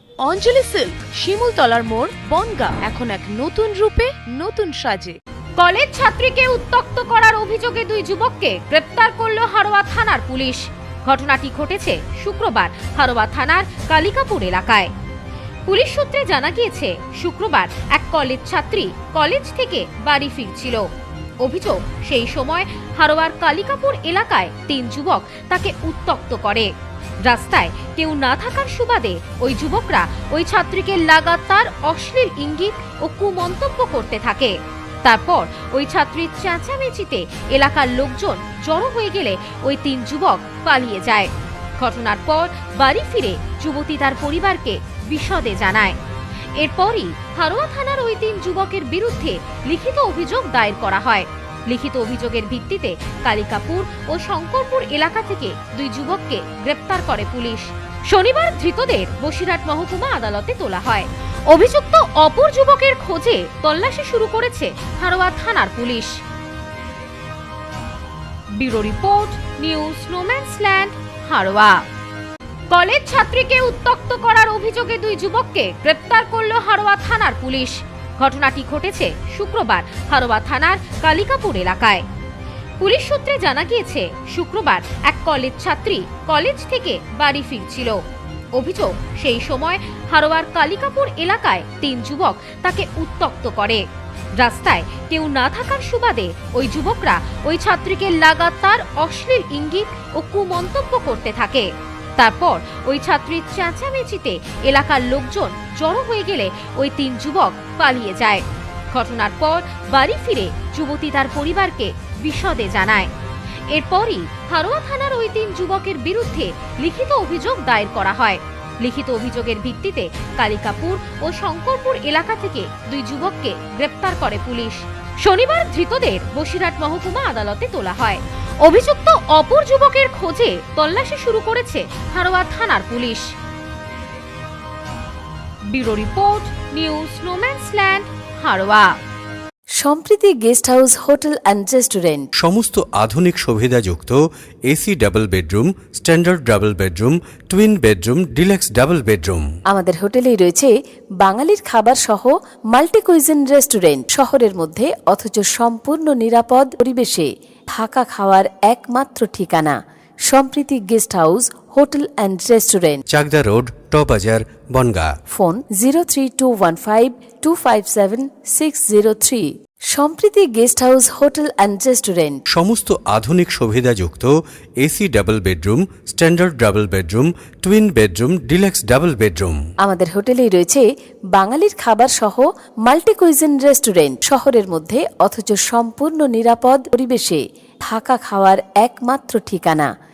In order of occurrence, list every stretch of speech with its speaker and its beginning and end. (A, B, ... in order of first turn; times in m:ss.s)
0:00.2-0:05.2 A
0:05.6-0:14.9 B
0:15.7-0:20.9 B
0:21.4-0:26.7 B
0:27.2-0:46.0 B
0:46.6-1:06.1 B
1:08.6-1:11.8 B
1:12.7-1:22.0 B
1:22.8-1:28.0 B
1:28.6-1:33.8 B
1:34.4-1:53.1 B
1:53.7-2:13.2 B
2:15.7-2:18.9 B
2:19.8-2:22.3 C
2:22.4-2:29.4 D
2:29.7-2:39.8 C
2:40.3-2:43.0 C
2:43.1-2:45.1 D
2:45.3-2:52.4 C
2:52.5-2:59.6 D
2:59.8-3:09.9 C